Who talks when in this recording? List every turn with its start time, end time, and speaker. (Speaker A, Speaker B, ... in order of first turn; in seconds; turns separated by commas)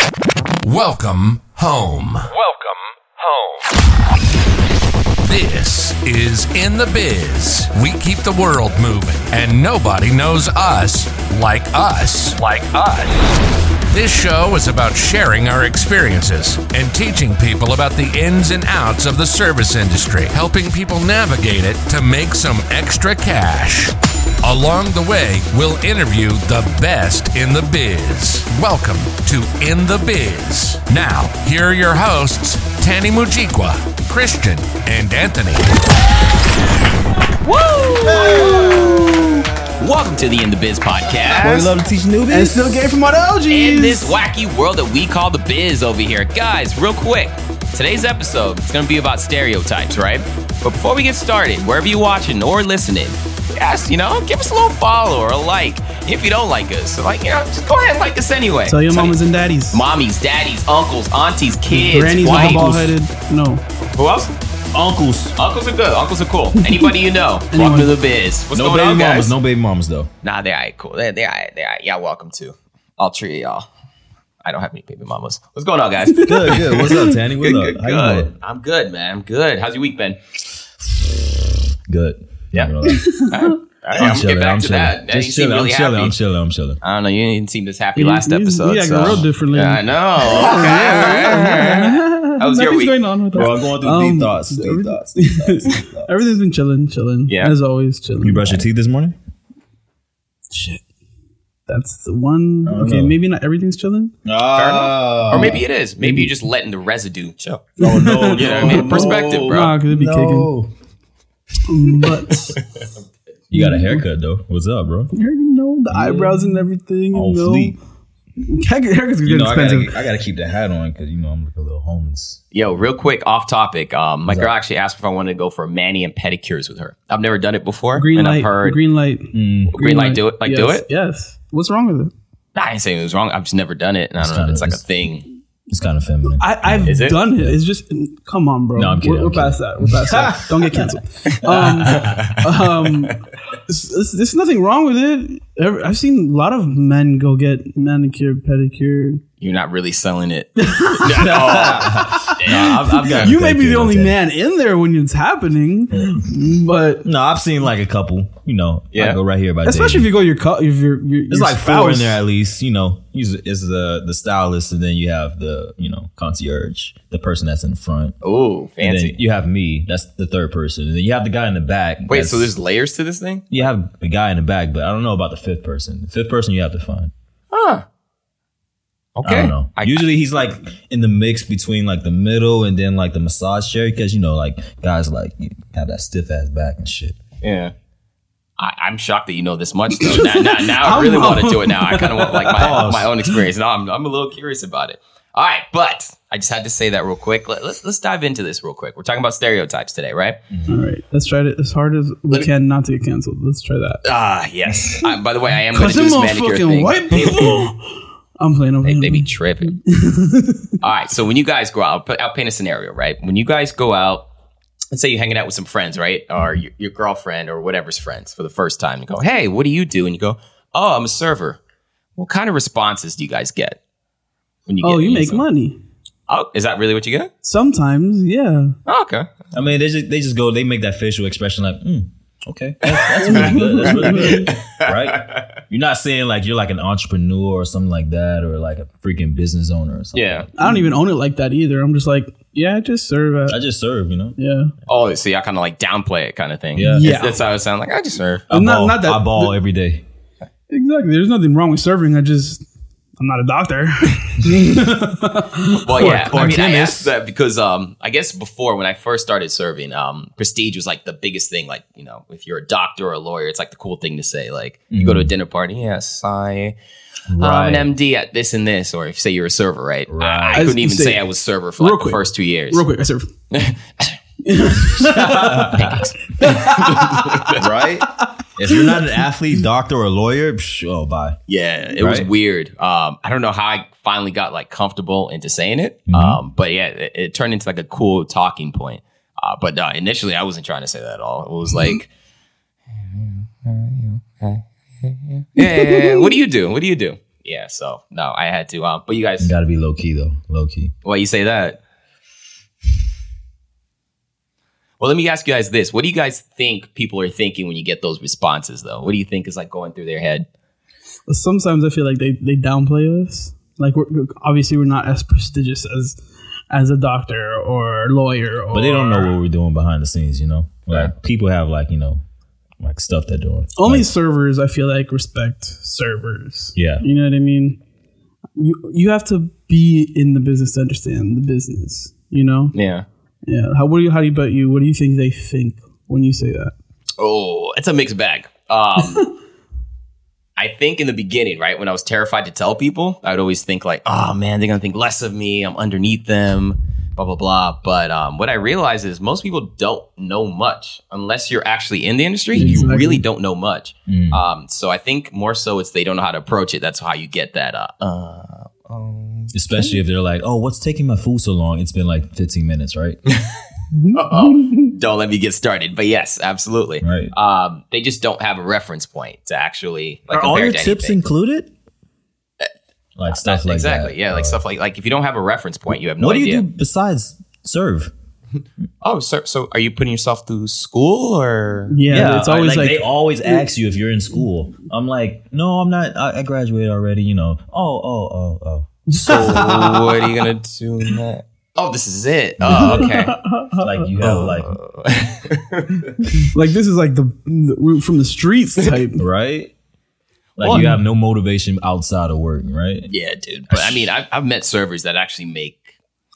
Speaker A: 0.6-3.7, Speaker A: 5.2-13.2, Speaker A: 13.9-35.9, Speaker B: 37.4-39.5, Speaker C: 38.1-39.2, Speaker D: 39.8-41.7, Speaker C: 41.4-43.0, Speaker B: 42.3-44.2, Speaker D: 43.5-59.2, Speaker B: 58.7-59.8, Speaker D: 59.7-62.8, Speaker B: 61.7-63.6, Speaker C: 62.5-62.9, Speaker D: 63.9-64.3, Speaker C: 64.7-65.4, Speaker D: 65.4-69.3, Speaker B: 67.5-68.0, Speaker C: 68.5-70.1, Speaker D: 70.2-73.7, Speaker D: 74.4-80.2, Speaker B: 76.1-77.1, Speaker C: 76.2-78.3, Speaker C: 81.9-83.3, Speaker B: 82.8-83.5, Speaker D: 83.3-86.2, Speaker C: 84.0-86.8, Speaker D: 86.8-93.0, Speaker B: 88.0-98.6, Speaker C: 93.3-96.2, Speaker D: 97.3-97.6, Speaker C: 98.2-99.2, Speaker B: 100.5-100.8, Speaker B: 101.7-104.2, Speaker C: 102.6-103.2, Speaker C: 104.2-105.6, Speaker D: 104.5-109.8, Speaker B: 105.4-106.3, Speaker B: 107.8-110.5, Speaker C: 107.8-110.7, Speaker B: 111.7-112.6, Speaker C: 113.5-115.1, Speaker B: 113.5-114.0, Speaker B: 115.1-117.8, Speaker C: 115.9-117.8, Speaker B: 118.4-120.0, Speaker C: 119.2-122.4, Speaker D: 122.5-128.8, Speaker C: 124.2-124.5, Speaker B: 128.0-132.1, Speaker C: 129.3-129.8, Speaker D: 129.7-130.9, Speaker D: 132.6-135.2, Speaker C: 134.2-134.8, Speaker C: 135.7-137.6, Speaker B: 136.4-149.2, Speaker D: 136.8-137.2, Speaker C: 138.8-140.9, Speaker D: 141.3-142.5, Speaker C: 141.5-142.2, Speaker D: 149.4-153.3, Speaker B: 150.6-152.6, Speaker C: 151.2-154.2, Speaker B: 153.2-157.1, Speaker C: 157.0-160.1, Speaker D: 158.9-159.2, Speaker B: 159.7-162.2, Speaker C: 161.3-168.2, Speaker D: 168.2-169.2, Speaker C: 168.8-172.6, Speaker D: 172.1-173.6, Speaker C: 173.5-177.1, Speaker D: 177.5-177.8, Speaker D: 179.2-180.0, Speaker C: 179.2-187.2, Speaker D: 187.4-187.7, Speaker D: 188.6-200.4, Speaker B: 190.0-192.7, Speaker C: 192.5-193.3, Speaker C: 200.5-200.8, Speaker B: 200.7-204.0, Speaker D: 204.0-207.7, Speaker B: 205.7-210.7, Speaker D: 208.8-209.8, Speaker D: 210.8-214.3, Speaker D: 214.9-221.6, Speaker D: 222.2-223.8, Speaker D: 224.7-225.5, Speaker B: 224.8-225.8, Speaker D: 226.3-227.3, Speaker B: 227.4-228.8, Speaker D: 228.9-229.3, Speaker C: 229.5-241.0, Speaker D: 232.9-235.6, Speaker B: 233.2-234.5, Speaker D: 240.1-240.5, Speaker B: 240.6-243.6, Speaker C: 243.5-244.4, Speaker B: 244.4-244.7, Speaker D: 244.9-248.5, Speaker C: 246.8-247.1, Speaker B: 246.8-247.5, Speaker C: 248.5-250.0, Speaker B: 248.5-249.5, Speaker B: 250.7-252.7, Speaker B: 253.2-256.2, Speaker D: 255.8-266.8, Speaker C: 255.9-257.1, Speaker C: 264.9-265.3, Speaker C: 267.3-267.9, Speaker D: 267.4-272.8, Speaker B: 267.4-267.8, Speaker C: 270.1-270.8, Speaker B: 270.5-271.2, Speaker B: 271.8-273.3, Speaker D: 273.5-274.2, Speaker B: 274.4-277.4, Speaker C: 275.0-276.1, Speaker D: 275.6-277.7, Speaker C: 277.6-281.4, Speaker D: 281.5-292.1, Speaker C: 282.0-282.3, Speaker C: 286.1-286.4, Speaker D: 293.1-299.5, Speaker B: 295.6-296.3, Speaker C: 299.4-300.9, Speaker D: 301.0-301.8, Speaker D: 305.0-310.5, Speaker B: 311.3-316.2, Speaker B: 316.7-319.4, Speaker C: 318.7-322.2, Speaker C: 322.8-324.1, Speaker B: 323.8-327.8, Speaker C: 326.8-327.1, Speaker B: 328.6-332.8, Speaker D: 332.7-333.1, Speaker B: 333.5-336.7, Speaker D: 337.2-339.3, Speaker D: 340.6-359.5, Speaker B: 352.5-353.2, Speaker C: 352.6-352.9, Speaker C: 354.1-354.4, Speaker C: 359.5-363.2, Speaker D: 363.3-363.5, Speaker B: 363.9-364.9, Speaker D: 364.1-371.2, Speaker C: 367.0-367.3, Speaker C: 370.3-371.7, Speaker C: 373.2-374.6, Speaker D: 373.3-376.6, Speaker C: 376.2-378.1, Speaker D: 379.0-382.3, Speaker B: 381.9-383.7, Speaker C: 382.1-389.8, Speaker B: 389.1-390.5, Speaker D: 389.2-393.4, Speaker C: 392.6-393.1, Speaker B: 392.7-394.1, Speaker C: 393.8-394.8, Speaker D: 394.2-396.4, Speaker B: 396.5-399.3, Speaker C: 399.2-399.7, Speaker C: 400.6-403.1, Speaker D: 400.6-400.9, Speaker B: 400.7-401.0, Speaker D: 403.1-405.9, Speaker C: 403.7-404.1